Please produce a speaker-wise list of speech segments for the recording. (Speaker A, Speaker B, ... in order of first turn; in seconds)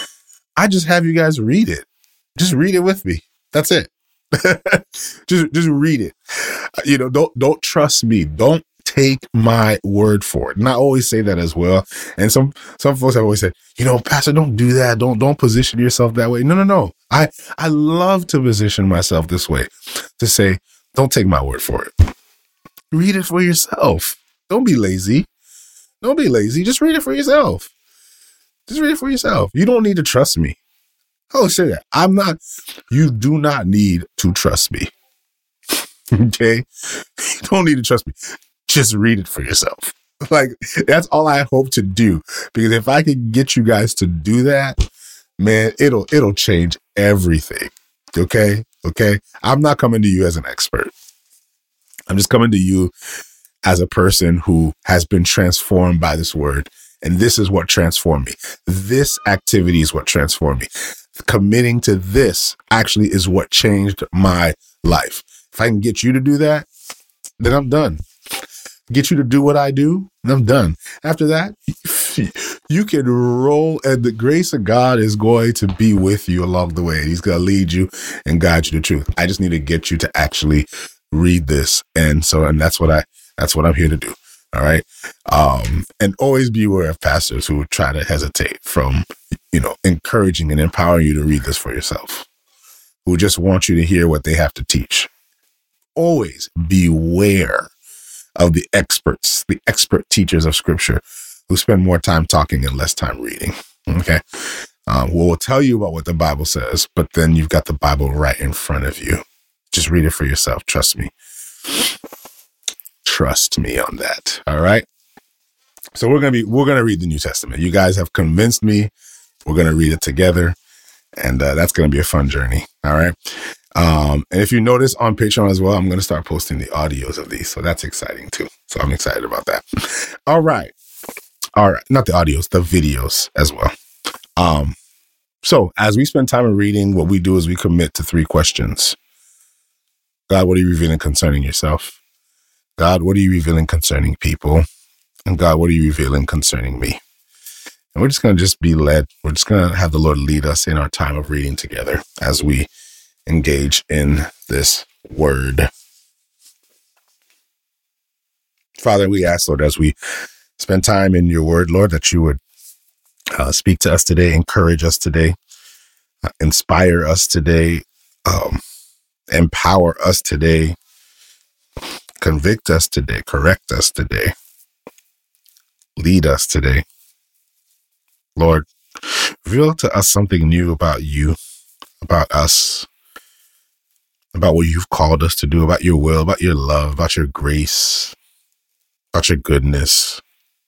Speaker A: 0.6-21.9, 22.9-25.3, 26.0-27.7, 28.7-30.6, 31.3-32.4, 32.9-34.9, 36.1-38.1, 38.6-44.8, 45.4-50.9, 52.1-52.9, 53.6-66.7, 67.4-68.0, 68.9-92.3, 93.0-95.1, 96.0-97.7, 98.4-111.1, 113.0-114.8, 115.9-118.9, 119.5-120.6, 121.2-130.7, 131.6-133.7, 134.4-134.8, 135.4-139.0, 140.3-142.0, 142.8-144.7, 145.3-147.0, 147.9-152.7, 153.3-155.7, 158.8-159.9, 160.6-162.4, 163.3-165.3, 166.4-168.6, 169.3-170.8, 172.2-174.3, 176.0-176.8, 178.3-181.4, 182.0-182.9, 184.3-188.2, 189.1-190.2